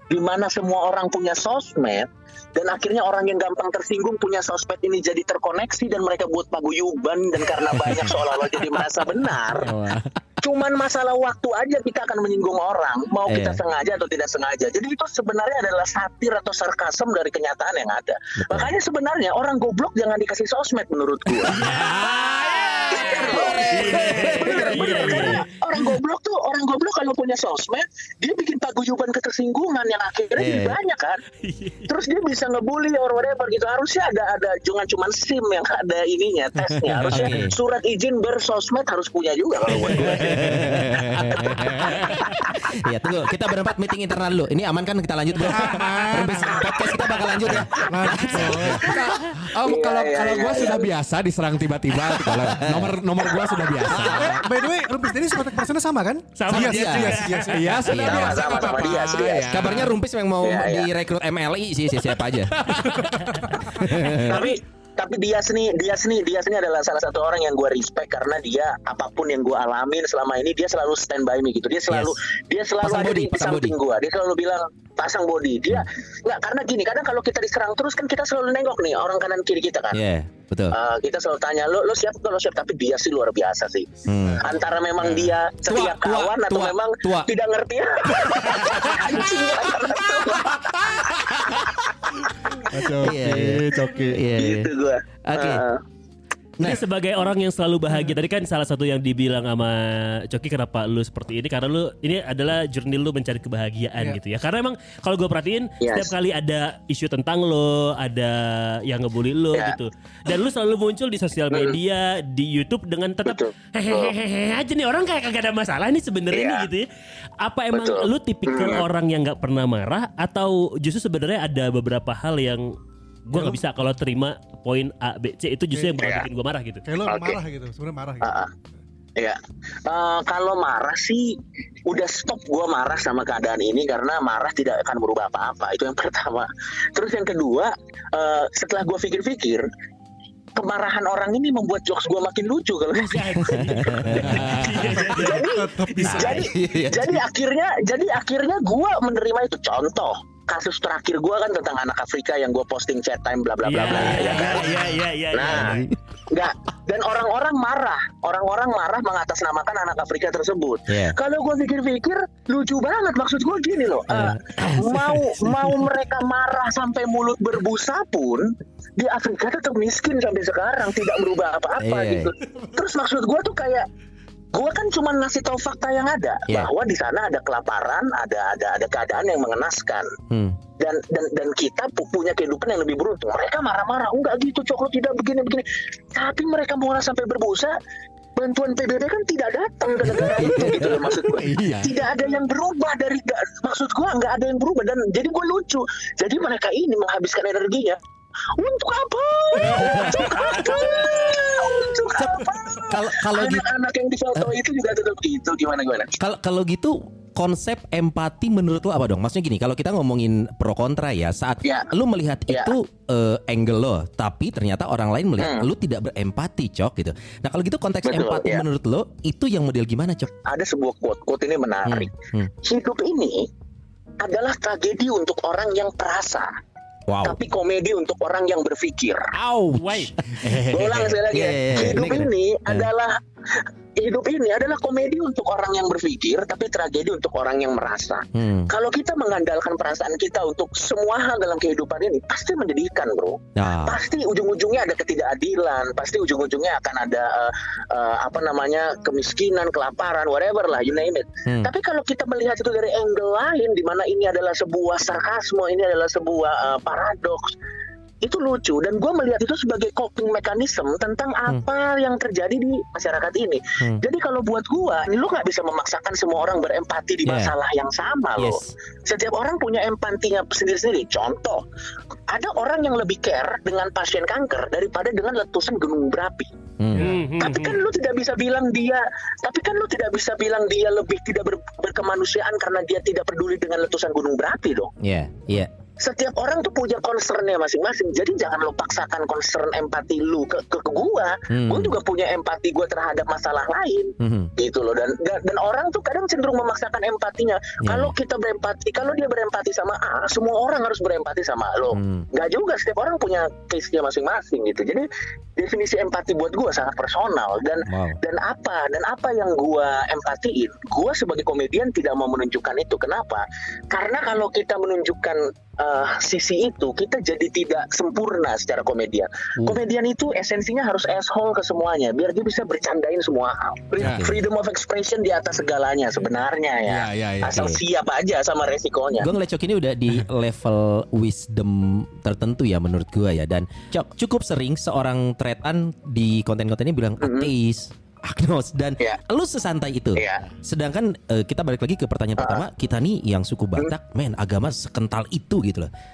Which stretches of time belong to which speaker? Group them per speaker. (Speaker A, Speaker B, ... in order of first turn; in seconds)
Speaker A: 0.1-9.7, 10.4-21.6, 22.9-31.2, 31.9-40.2, 41.3-42.5, 49.6-50.9, 58.0-59.6, 60.4-60.9, 64.1-80.0, 80.7-91.0, 94.3-95.8, 105.8-106.1, 111.5-111.8, 113.2-114.1, 116.3-116.7, 117.7-118.8, 126.0-126.3, 127.1-127.4, 128.2-128.5, 129.2-139.7, 140.6-143.4, 145.1-173.9, 174.5-180.1, 180.8-187.8, 188.4-198.0, 198.6-206.2, 211.6-211.9, 212.5-212.8, 215.4-215.7, 218.1-218.6, 220.4-222.1, 222.6-223.5, 224.2-226.5, 227.2-229.3, 230.7-257.5, 258.2-271.6, 272.3-276.5, 277.4-284.9, 286.0-305.1, 305.6-329.3, 337.2-337.5, 340.2-340.4, 342.4-342.6
Speaker B: 9.6-10.1, 21.6-24.3, 36.6-37.0, 40.0-42.2, 45.5-46.3, 48.3-54.5, 56.5-60.0, 62.5-64.3, 91.0-91.4, 92.7-94.2, 144.2-144.9, 190.7-192.0, 229.8-230.9, 324.0-324.4, 326.9-327.7
Speaker C: 13.3-13.6, 18.4-18.7, 23.2-25.4, 30.4-30.8, 37.1-37.5, 39.8-41.5, 42.6-48.9, 52.1-54.6, 56.5-57.2, 57.9-58.5, 59.5-62.7, 63.8-64.4, 71.9-72.2, 72.8-73.8, 79.9-80.8, 84.1-87.3, 92.9-94.7, 95.3-95.6, 96.6-96.8, 143.4-145.0, 146.0-147.2, 153.8-154.8, 155.4-156.0, 160.9-161.2, 164.1-165.8, 171.8-172.3, 180.3-180.6, 190.1-191.4, 199.7-200.2, 202.2-203.7, 206.2-220.3, 221.9-222.5, 227.1-227.4, 229.4-232.9, 238.3-238.7, 243.6-244.0, 267.2-267.5, 268.4-268.7, 276.8-277.1, 285.0-285.7, 291.5-291.9, 294.2-294.5, 297.8-298.1, 301.9-302.3, 307.9-308.2, 324.0-324.4, 327.5-327.8, 329.2-345.9
Speaker D: 21.6-22.5, 23.7-25.4, 31.4-31.9, 39.7-40.8, 56.4-57.9, 96.6-116.9, 117.4-122.7, 123.3-126.8, 142.9-146.4, 153.7-155.9, 229.8-230.1, 276.9-277.8
Speaker E: 45.5-46.8, 47.8-48.9, 54.1-57.9, 126.8-128.4, 144.8-146.3